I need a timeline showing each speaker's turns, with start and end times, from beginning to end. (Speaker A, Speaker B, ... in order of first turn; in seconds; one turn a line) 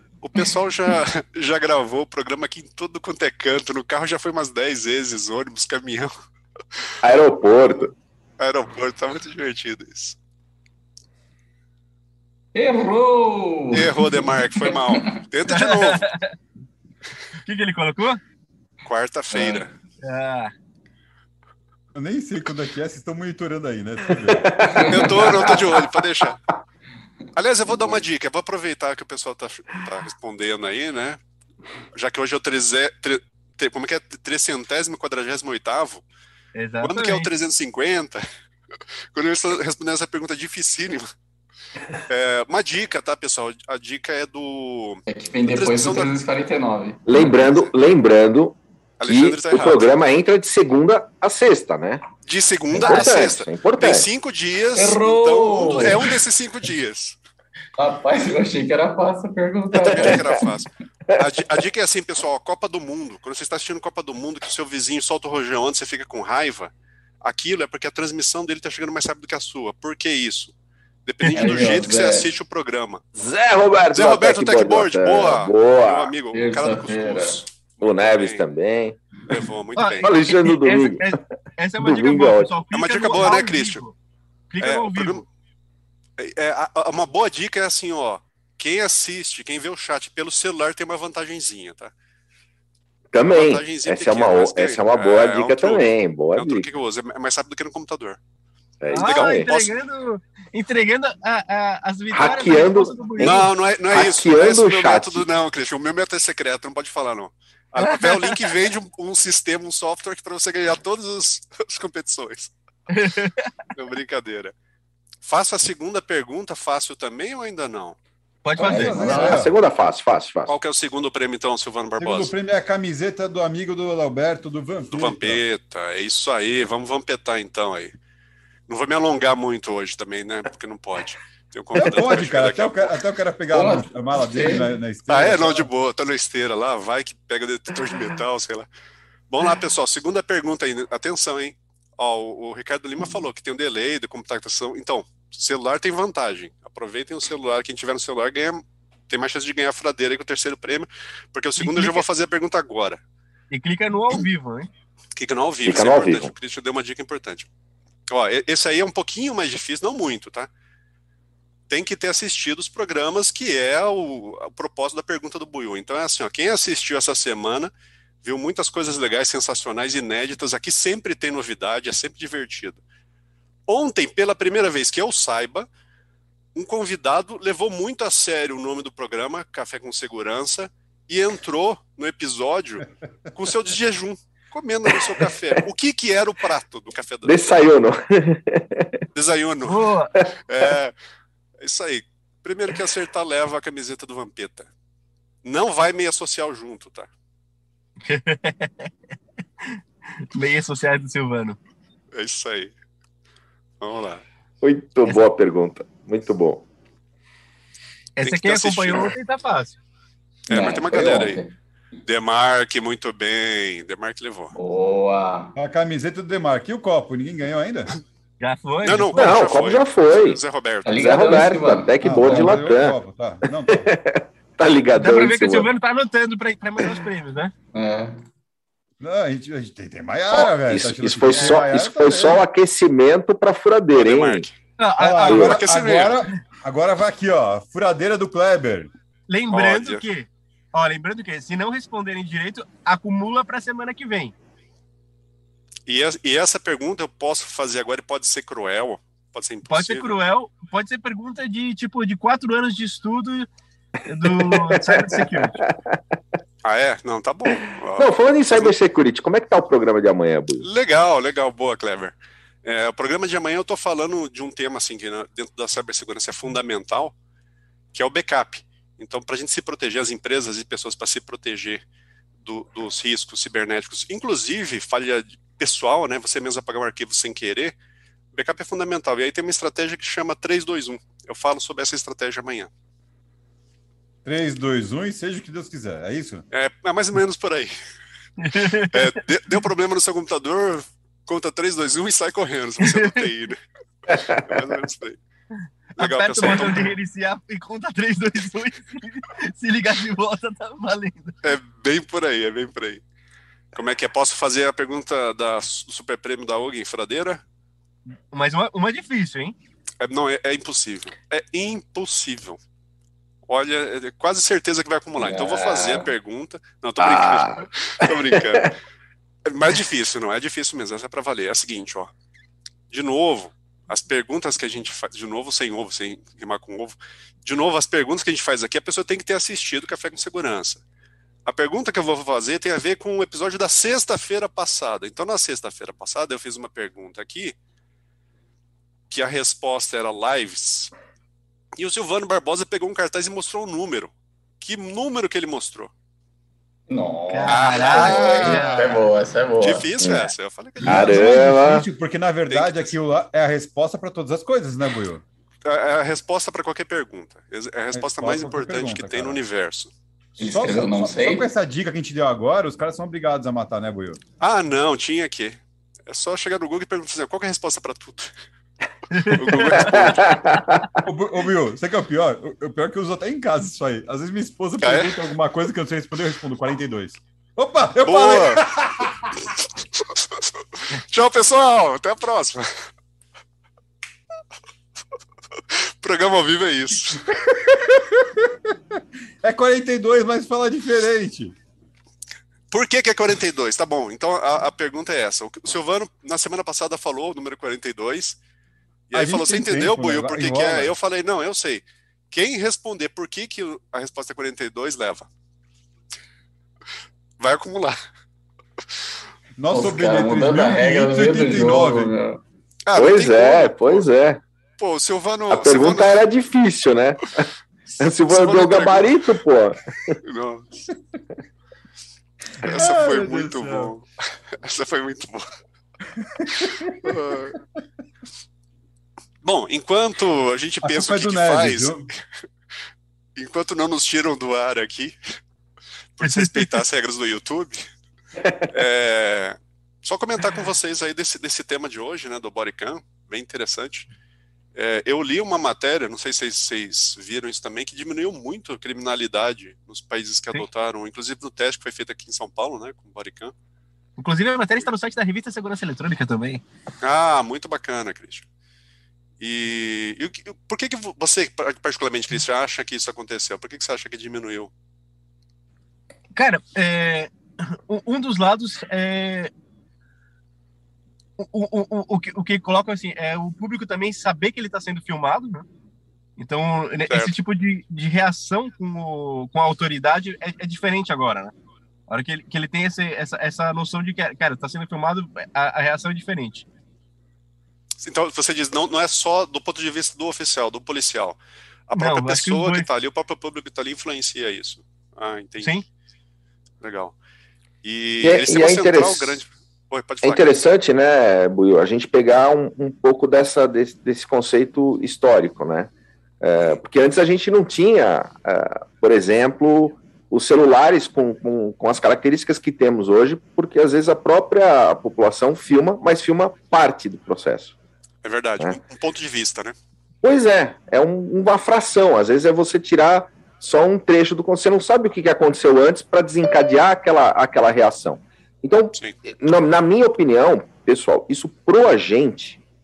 Speaker A: 0.2-6.1
Speaker B: 7.0-7.9
Speaker A: 8.4-10.2
Speaker C: 12.5-15.0
Speaker A: 13.7-16.1
Speaker D: 15.5-16.3
Speaker D: 17.4-18.2
Speaker A: 18.9-19.7
Speaker C: 19.3-19.6
Speaker D: 20.0-20.5
Speaker E: 21.9-24.6
Speaker B: 24.4-26.1
Speaker C: 24.6-25.5
Speaker A: 24.8-26.4
Speaker A: 27.3-31.2
Speaker A: 31.9-36.0
Speaker D: 36.5-37.3
Speaker A: 36.8-38.2
Speaker A: 39.1-41.0
Speaker A: 42.1-46.1
Speaker C: 45.1-47.5
Speaker B: 47.1-52.0
Speaker A: 49.0-50.0
Speaker A: 52.2-57.2
Speaker B: 52.7-54.1
Speaker C: 54.7-56.2
Speaker C: 57.8-60.5
Speaker A: 59.7-70.5
Speaker A: 71.1-73.0
Speaker D: 71.2-71.7
Speaker C: 71.3-72.3
Speaker B: 73.2-76.1
Speaker A: 73.9-78.4
Speaker C: 76.3-77.4
Speaker B: 77.8-79.0
Speaker A: 79.3-80.1
Speaker D: 79.8-84.0
Speaker B: 80.0-81.2
Speaker B: 81.8-82.6
Speaker A: 82.7-83.8
Speaker D: 84.5-85.2
Speaker A: 84.6-85.2
Speaker A: 86.2-91.9
Speaker B: 93.1-96.7
Speaker A: 93.2-98.2
Speaker B: 98.8-99.5
Speaker A: 98.9-99.7
Speaker D: 98.9-103.5
Speaker B: 102.1-105.3
Speaker A: 103.2-112.5
Speaker D: 107.8-108.5
Speaker D: 112.9-113.5
Speaker A: 113.7-114.5
Speaker A: 115.2-118.0
Speaker D: 118.5-119.4
Speaker E: 118.6-119.5
Speaker C: 118.6-119.4
Speaker B: 118.9-120.6
Speaker A: 120.5-122.3
Speaker E: 122.0-125.4
Speaker A: 124.9-127.9
Speaker A: 128.7-133.0
Speaker E: 131.8-135.7
Speaker C: 133.5-134.7
Speaker A: 135.1-138.7
Speaker A: 139.3-153.0
Speaker D: 151.6-152.0
Speaker D: 153.5-154.7
Speaker A: 155.2-157.5
Speaker B: 155.6-156.3
Speaker A: 158.1-160.5
Speaker A: 161.7-167.7
Speaker A: 168.2-172.8
Speaker A: 173.7-175.7
Speaker A: 176.6-187.6
Speaker B: 184.9-185.6
Speaker B: 187.2-189.0
Speaker A: 189.1-189.9
Speaker D: 189.6-190.1
Speaker A: 190.5-190.9
Speaker A: 191.6-194.7
Speaker A: 195.4-197.1
Speaker D: 198.0-198.9
Speaker D: 200.3-201.6
Speaker A: 202.2-202.7
Speaker A: 203.8-204.2
Speaker B: 204.6-206.7
Speaker D: 208.2-209.8
Speaker A: 208.2-209.1
Speaker A: 210.5-211.4
Speaker C: 210.5-211.5
Speaker A: 212.1-214.5
Speaker C: 214.6-215.5
Speaker E: 215.6-217.9
Speaker D: 218.4-219.3
Speaker A: 218.8-221.1
Speaker B: 219.2-220.4
Speaker C: 220.8-222.6
Speaker B: 220.9-223.0
Speaker E: 222.0-223.9
Speaker B: 223.7-225.7
Speaker D: 225.0-227.5
Speaker C: 227.7-228.2
Speaker E: 229.0-232.4
Speaker B: 230.3-234.5
Speaker A: 233.9-234.5
Speaker D: 234.8-235.6
Speaker E: 235.0-238.9
Speaker B: 235.2-235.6
Speaker A: 235.4-236.2
Speaker D: 239.3-244.3
Speaker A: 239.5-240.1
Speaker A: 245.9-250.2
Speaker D: 249.7-253.5
Speaker D: 254.1-255.6
Speaker B: 254.3-256.0
Speaker A: 256.6-258.7
Speaker B: 258.0-260.7
Speaker A: 260.6-267.1
Speaker A: 267.9-271.8
Speaker A: 272.4-277.8
Speaker A: 278.3-282.7
Speaker E: 284.2-286.4
Speaker A: 286.5-287.7
Speaker D: 288.4-289.2
Speaker A: 288.8-293.6
Speaker D: 292.8-293.3
Speaker B: 294.1-294.8
Speaker A: 294.4-295.2
Speaker D: 296.0-301.4
Speaker A: 296.0-296.9
Speaker A: 301.4-303.0
Speaker A: 303.7-307.4
Speaker D: 308.3-309.6
Speaker A: 310.0-312.6
Speaker A: 313.5-318.8
Speaker C: 315.2-316.1
Speaker B: 317.0-318.7
Speaker A: 319.5-322.1
Speaker A: 322.9-330.8
Speaker A: 331.5-337.6
Speaker A: 339.1-340.9
Speaker A: 341.8-345.9
Speaker C: 346.9-349.9
Speaker D: 347.3-348.9
Speaker A: 347.5-349.1
Speaker A: 349.6-351.2
Speaker B: 350.0-350.3
Speaker E: 350.8-355.2
Speaker B: 350.9-351.9
Speaker A: 352.5-352.9
Speaker A: 355.6-359.9
Speaker E: 357.9-359.4
Speaker C: 360.4-361.5
Speaker E: 360.4-364.2
Speaker A: 364.4-368.3
Speaker D: 369.1-370.8
Speaker A: 369.3-370.4
Speaker B: 369.8-370.8
Speaker E: 371.0-379.4
Speaker A: 374.8-375.2
Speaker A: 378.0-378.6
Speaker A: 380.9-382.7
Speaker A: 385.7-387.2
Speaker E: 387.2-391.6
Speaker A: 392.7-398.4
Speaker A: 399.1-405.3
Speaker E: 399.1-400.9
Speaker A: 407.4-408.0
Speaker E: 409.6-412.1
Speaker C: 409.7-412.4
Speaker A: 412.9-414.1
Speaker B: 412.9-414.4
Speaker A: 414.8-416.2
Speaker B: 415.5-417.5
Speaker B: 418.0-420.2
Speaker A: 418.3-419.2
Speaker A: 420.2-420.9
Speaker E: 422.6-423.9
Speaker A: 422.6-424.1
Speaker A: 424.6-425.5
Speaker E: 426.2-427.2
Speaker A: 426.6-427.6
Speaker A: 429.4-432.1
Speaker E: 430.9-432.1
Speaker A: 433.4-435.2
Speaker A: 436.2-437.8
Speaker D: 436.2-436.7
Speaker A: 438.7-444.1
Speaker A: 444.8-453.5
Speaker D: 454.2-456.6
Speaker A: 457.0-458.5
Speaker A: 459.4-464.7
Speaker D: 466.4-469.5
Speaker D: 471.4-475.7
Speaker D: 476.4-481.5
Speaker D: 482.1-486.7
Speaker A: 488.0-495.8
Speaker D: 491.9-492.9
Speaker A: 496.8-497.1
Speaker A: 497.8-500.6
Speaker B: 498.2-499.4
Speaker B: 500.2-517.8
Speaker A: 518.2-519.8
Speaker B: 520.2-532.6